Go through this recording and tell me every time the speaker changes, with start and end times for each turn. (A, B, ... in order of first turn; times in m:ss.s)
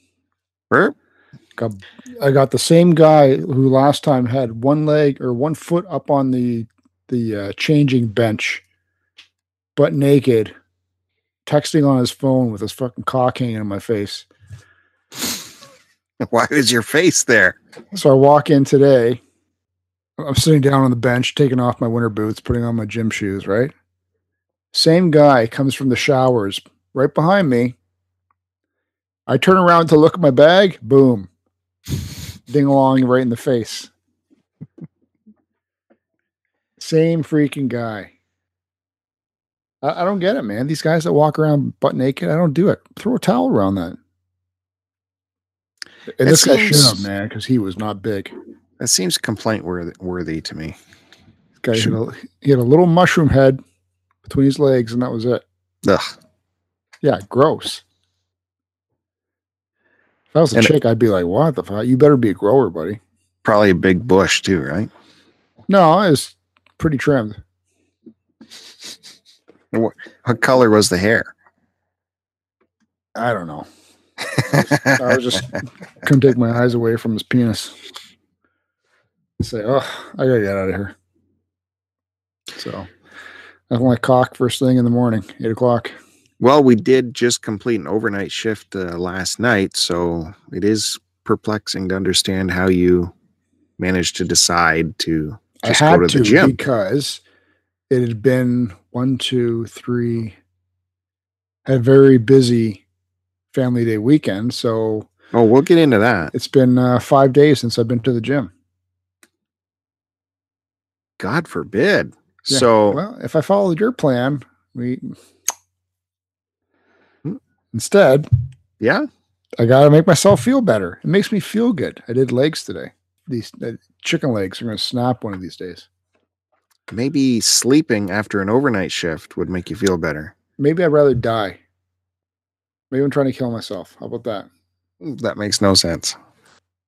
0:01.6-0:08.6 A
0:09.8-0:10.5 A
0:11.5-0:14.3 A
0:16.2-0:17.6 B
0:17.9-0:19.2 A
0:20.2-0:23.7 A
0:24.7-0:27.8 A
0:29.3-0:31.3 A
0:32.5-0:33.9 A
0:36.8-0:38.1 A
0:39.8-0:44.0 A
0:46.2-0:48.3 A
0:46.2-0:47.0 B
0:48.8-0:50.8 B
0:51.6-0:53.6 A
0:54.2-0:55.4 A
0:55.8-0:56.2 B
0:57.0-0:57.8 A
1:00.3-1:03.0 A
1:03.4-1:04.9 B
1:05.7-1:07.4 A
1:09.7-1:11.3 B
1:13.2-1:13.7 A
1:14.4-1:15.4 B
1:14.9-1:17.8 A
1:19.4-1:21.0 A
1:22.6-1:22.9 A
1:23.7-1:25.9 A
1:26.4-1:33.1 B
1:33.8-1:36.6 B
1:35.6-1:37.2 A
1:37.9-1:40.4 A
1:41.7-1:42.8 A
1:43.5-1:45.1 A
1:45.3-1:46.3 B
1:46.3-1:48.5 A
1:51.2-1:53.0 B
1:52.5-1:55.2 A
1:57.7-1:58.3 A
1:58.8-1:59.1 B
1:59.6-2:05.9 A
2:06.9-2:10.3 B
2:10.6-2:11.6 A
2:12.9-2:14.5 A
2:15.0-2:16.2 B